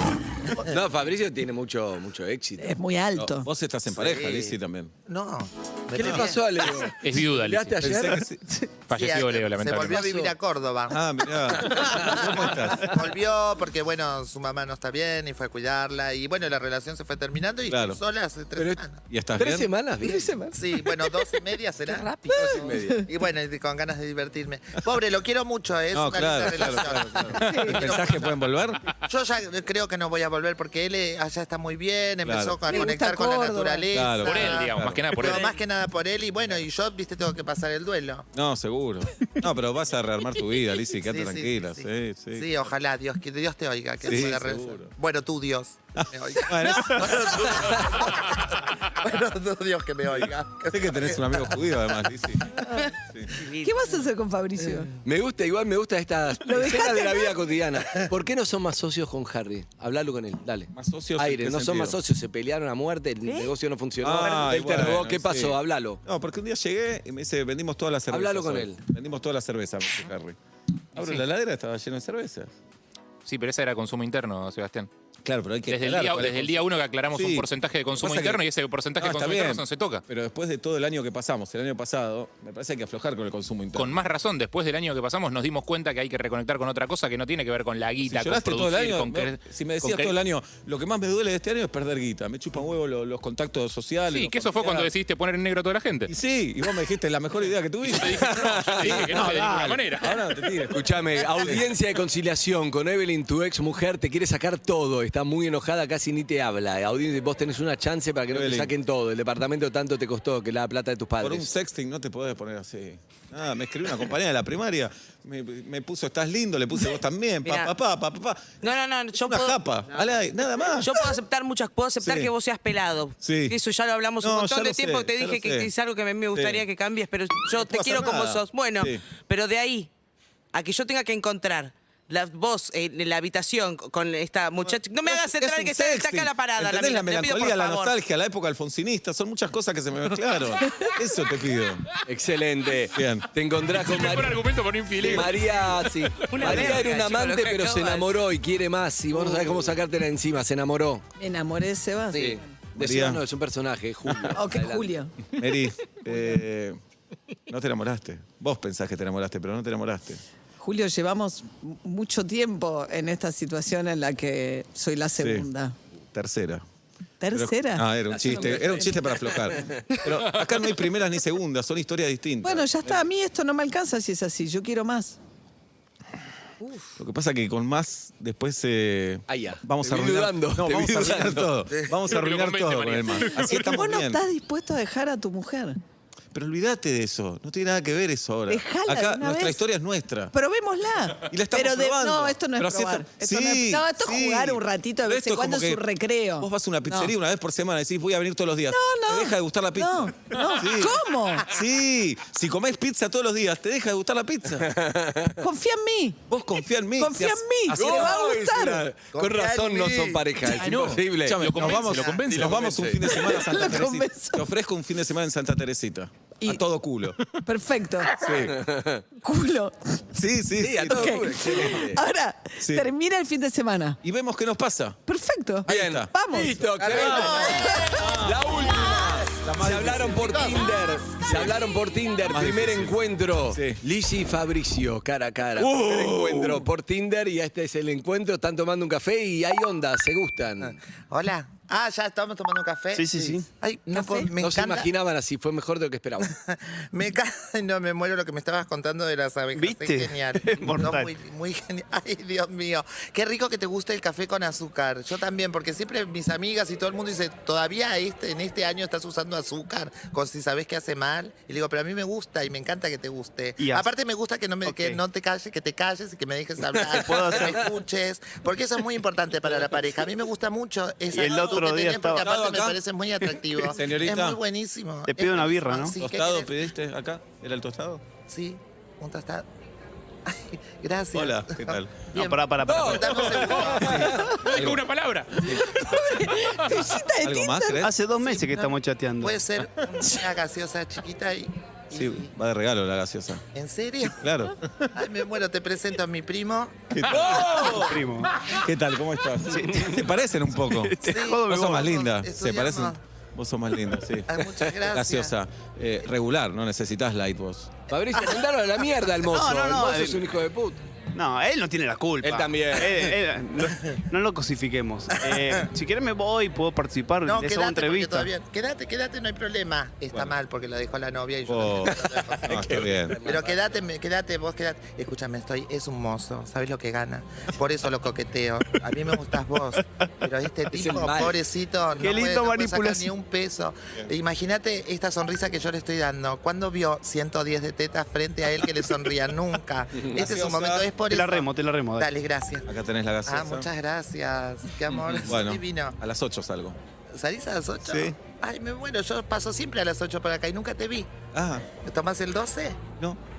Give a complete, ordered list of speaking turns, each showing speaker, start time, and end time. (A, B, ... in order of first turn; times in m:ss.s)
0:00.6-0:02.8 A
0:02.6-0:03.5 B
0:03.2-0:04.9 C
0:03.9-0:04.6 D
0:05.1-0:06.6 D
0:05.9-0:08.2 A
0:07.0-0:07.8 E
0:07.8-0:08.4 C
0:08.9-0:10.1 E
0:08.9-0:11.0 D
0:09.8-0:10.3 A
0:10.9-0:13.0 C
0:11.5-0:19.0 D
0:17.7-0:18.0 C
0:18.6-0:18.8 A
0:19.1-0:19.7 C
0:19.4-0:20.4 A
0:20.0-0:20.5 B
0:20.5-0:22.3 D
0:21.9-0:22.6 F
0:22.3-0:23.0 A
0:22.9-0:28.2 D
0:25.9-0:28.8 C
0:27.4-0:27.8 B
0:29.0-0:38.2 D
0:32.2-0:32.6 C
0:32.7-0:33.9 B
0:33.9-0:35.1 C
0:34.2-0:35.5 E
0:38.3-0:42.5 C
0:41.0-0:51.8 D
0:44.0-0:44.9 C
0:46.0-0:47.7 C
0:50.2-0:52.5 C
0:53.3-0:54.0 F
0:53.6-0:54.9 B
0:55.0-1:06.0 A
0:56.4-0:57.4 B
1:00.7-1:02.0 C
1:03.2-1:03.5 B
1:04.0-1:10.4 C
1:08.1-1:08.8 A
1:10.9-1:12.5 C
1:13.2-1:14.9 E
1:15.2-1:18.4 C
1:15.7-1:20.0 E
1:19.0-1:24.0 C
1:23.7-1:30.1 E
1:28.0-1:34.9 C
1:34.1-1:36.1 E
1:36.1-1:41.6 C
1:37.9-1:40.2 E
1:37.9-1:39.3 A
1:40.7-1:51.5 A
1:48.3-1:48.7 C
1:51.2-1:58.6 C
1:57.4-1:57.7 F
1:58.6-2:09.9 F
1:59.1-2:01.0 C
2:02.0-2:02.3 C
2:03.2-2:03.6 C
2:04.2-2:05.7 C
2:06.3-2:06.6 C
2:07.5-2:09.0 C
2:10.5-2:18.0 F
2:15.0-2:21.9 C
2:22.0-2:24.4 A
2:22.9-2:23.3 C
2:23.7-2:26.8 E
2:25.0-2:25.3 C
2:25.0-2:31.0 A
2:26.3-2:28.2 F
2:29.2-2:29.7 C
2:31.2-2:32.5 B
2:32.1-2:34.9 A
2:32.8-2:33.2 C
2:34.3-2:35.3 B
2:35.3-2:36.8 C
2:37.5-2:40.2 C
2:40.6-2:45.7 B
2:45.2-2:45.5 C
2:46.1-2:46.6 C
2:47.2-2:47.9 B
2:47.3-2:53.0 C
2:48.1-2:49.8 A
2:52.4-2:55.2 B
2:57.0-3:04.2 C
2:59.3-3:01.5 A
3:02.0-3:03.8 E
3:03.5-3:05.8 B
3:06.3-3:10.3 C
3:08.5-3:09.6 B
3:10.3-3:17.1 B
3:11.2-3:15.8 C
3:16.4-3:24.7 C
3:18.7-3:21.5 B
3:24.6-3:25.4 A
3:25.4-3:26.2 B
3:26.3-3:28.2 C
3:27.0-3:28.8 B
3:27.7-3:31.4 A
3:29.1-3:30.2 D
3:30.5-3:32.8 E
3:30.6-3:37.2 C
3:31.6-3:32.2 D
3:32.3-3:33.0 A
3:33.1-3:34.4 B
3:37.4-3:38.1 B
3:38.2-3:38.5 C
3:38.3-3:39.0 A
3:39.2-3:40.0 B
3:40.1-3:41.6 C
3:40.6-3:42.0 A
3:40.9-3:44.0 B
3:42.6-3:42.9 C
3:44.0-3:45.0 C
3:45.1-3:48.2 B
3:45.6-3:46.1 C
3:45.7-4:00.8 A
3:46.8-3:49.3 D
3:47.0-3:48.6 C
3:49.3-3:50.4 C
3:50.2-3:50.6 D
3:51.3-3:51.5 C
3:52.2-3:53.8 C
3:55.6-3:56.7 C
4:01.1-4:04.9 D
4:02.9-4:03.5 G
4:03.9-4:04.3 B
4:04.4-4:06.3 A
4:06.2-4:36.6 D
4:09.5-4:11.1 G
4:23.6-4:23.9 G
4:24.6-4:25.0 G
4:27.0-4:27.7 G
4:31.1-4:32.4 G
4:31.2-4:31.6 C
4:32.2-4:32.8 C
4:33.5-4:34.4 C
4:35.1-4:36.0 G
4:36.0-4:38.0 C
4:38.3-4:39.4 D
4:40.2-4:44.0 D
4:41.1-4:42.0 C
4:42.1-4:43.4 G
4:42.6-4:44.4 A
4:43.4-4:45.6 E
4:43.8-4:44.8 C
4:45.5-4:47.8 B
4:47.2-4:47.9 C
4:47.8-4:49.4 G
4:48.4-4:52.3 D
4:51.9-4:53.4 C
4:53.5-4:54.3 D
4:54.0-4:54.9 C
4:54.9-4:56.8 D
4:56.9-5:07.7 C
4:57.1-4:57.8 A
4:57.7-4:58.4 G
4:59.5-5:00.0 G
5:00.7-5:01.9 G
5:01.0-5:03.0 D
5:04.3-5:05.3 D
5:07.9-5:10.8 A
5:09.2-5:10.3 G
5:11.1-5:18.3 G
5:12.2-5:13.1 A
5:17.2-5:22.7 D
5:21.5-5:23.2 C
5:21.8-5:23.8 A
5:23.2-5:42.7 D
5:30.7-5:31.4 A
5:32.0-5:33.1 G
5:40.1-5:40.9 C
5:41.1-5:42.1 G
5:42.7-5:43.7 C
5:43.2-5:46.0 D
5:45.2-5:46.8 C
5:47.1-5:51.1 D
5:47.8-5:48.2 C
5:51.3-5:51.7 C
5:51.8-5:52.8 D